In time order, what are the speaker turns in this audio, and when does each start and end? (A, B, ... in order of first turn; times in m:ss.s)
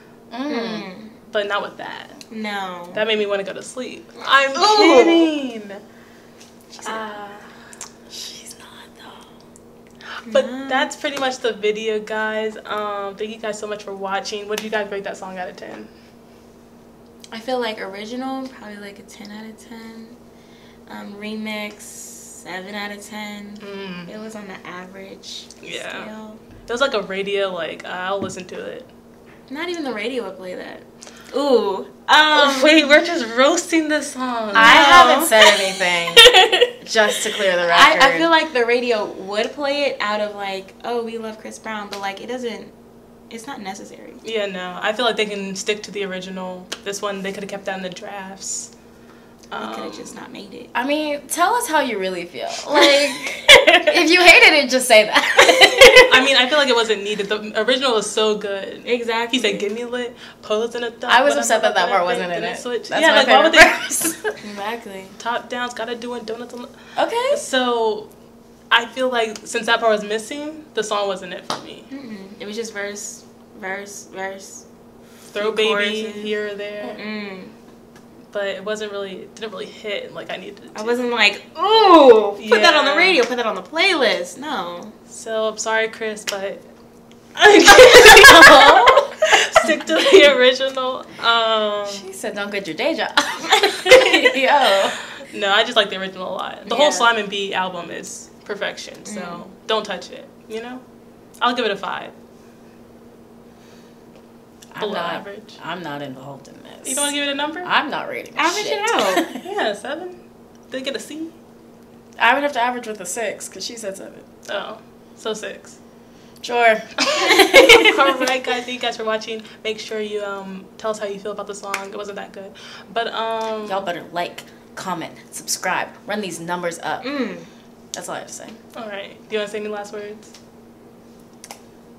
0:00.3-0:00.9 A
0:00.5-0:01.1 B
0:01.3-0:02.2 C
0:02.3-0:03.0 B
0:02.9-0:05.8 C
0:04.5-0:05.3 B
0:06.8-0:07.1 B
0:06.8-0:07.5 C
0:08.1-0:09.3 A
0:10.2-0:15.9 C
0:10.2-0:10.9 B
0:17.3-0:20.2 B
0:20.9-0:26.4 B
0:23.6-0:24.1 C
0:25.6-0:26.1 C
0:26.6-0:28.9 C
0:29.5-0:33.0 B
0:32.3-0:35.0 C
0:34.5-0:35.6 B
0:34.5-0:38.3 A
0:37.6-0:42.7 B
0:43.3-0:44.2 B
0:44.2-0:48.7 C
0:49.5-0:50.2 C
0:49.6-0:50.7 B
0:50.7-0:56.2 A
0:56.0-1:04.3 C
0:58.8-0:59.7 B
1:01.1-1:04.2 A
1:04.4-1:05.2 B
1:05.2-1:06.7 C
1:07.0-1:07.4 A
1:07.3-1:08.1 C
1:08.7-1:11.9 C
1:11.9-1:14.6 B
1:15.3-1:17.0 C
1:15.4-1:16.3 B
1:16.9-1:17.5 B
1:18.3-1:21.0 C
1:20.7-1:24.9 B
1:22.4-1:23.2 C
1:25.1-1:26.7 C
1:27.4-1:32.1 C
1:28.2-1:29.2 A
1:31.8-1:35.0 A
1:35.3-1:40.8 C
1:36.6-1:37.1 B
1:39.0-1:39.5 B
1:41.4-1:42.1 C
1:44.7-1:49.4 A
1:44.8-1:45.5 C
1:46.8-1:47.7 C
1:48.4-1:49.3 B
1:49.4-1:50.2 C
1:50.7-1:51.3 C
1:52.2-1:54.2 A
1:54.5-1:55.8 C
1:56.4-1:58.0 A
1:57.1-2:03.9 C
2:03.6-2:07.1 A
2:07.0-2:07.5 B
2:07.9-2:08.6 A
2:08.7-2:10.3 C